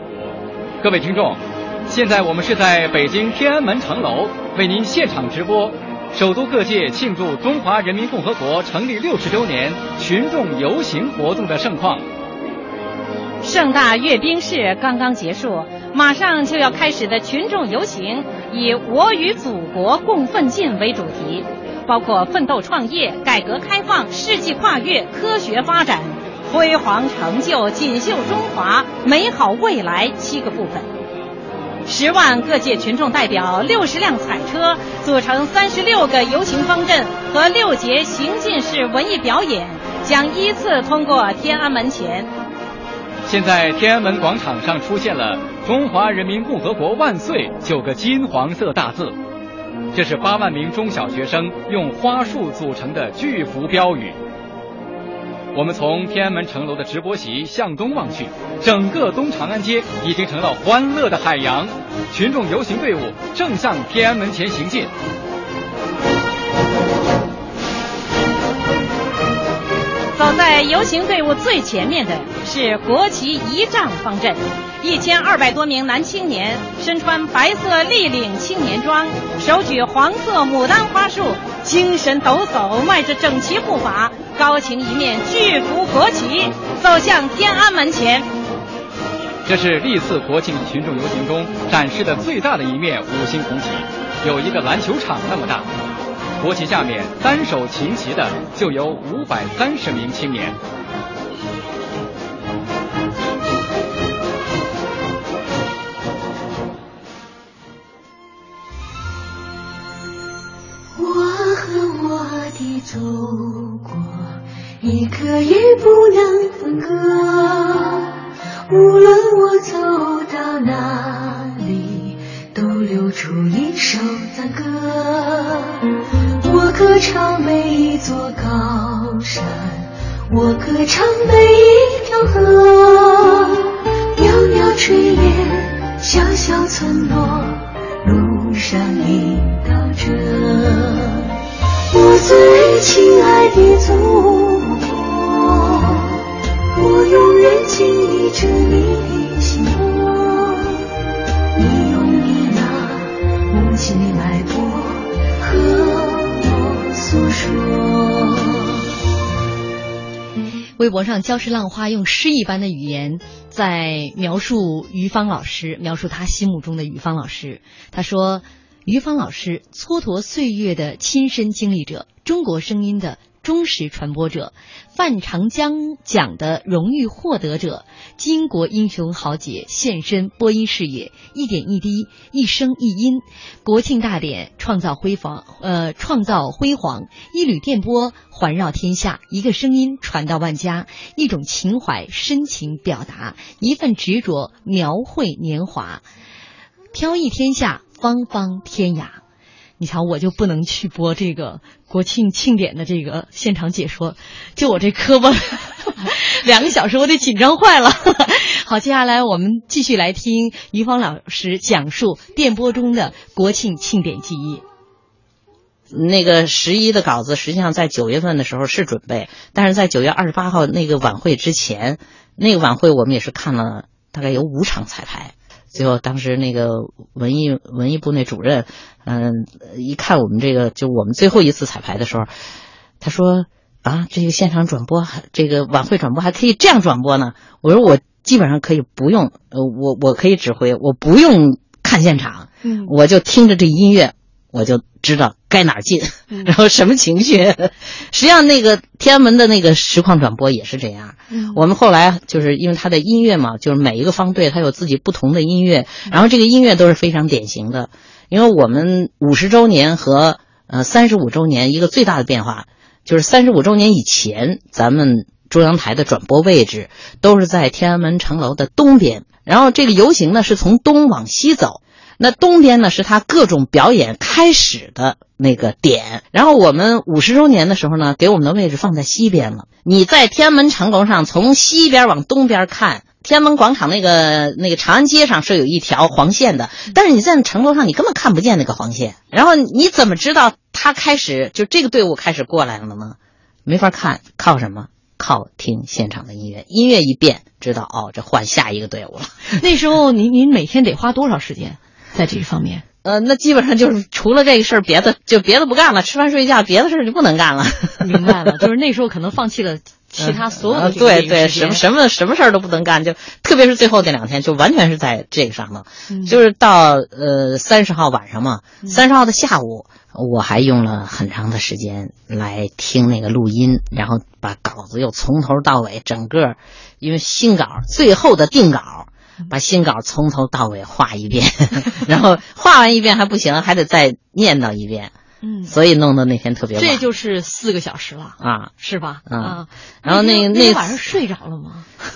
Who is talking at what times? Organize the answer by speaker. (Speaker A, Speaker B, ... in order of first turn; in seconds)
Speaker A: 0.8-12.0, 43.3-49.2, 49.9-54.2, 55.5-64.9, 89.5-95.7, 96.4-100.6
Speaker B: 13.4-30.9, 31.9-42.3, 70.2-88.3
Speaker C: 111.0-125.9, 126.4-141.3, 141.9-150.9, 151.5-158.8
Speaker D: 160.8-196.0, 196.9-199.2, 199.8-214.6, 242.6-242.9, 251.3-251.6, 299.6-302.8, 308.0-311.8, 316.1-316.4, 335.4-335.7, 336.8-341.9
Speaker E: 215.9-232.3, 233.0-299.5, 303.0-308.6, 310.2-335.1, 335.7-337.1, 338.4-338.7, 339.3-341.0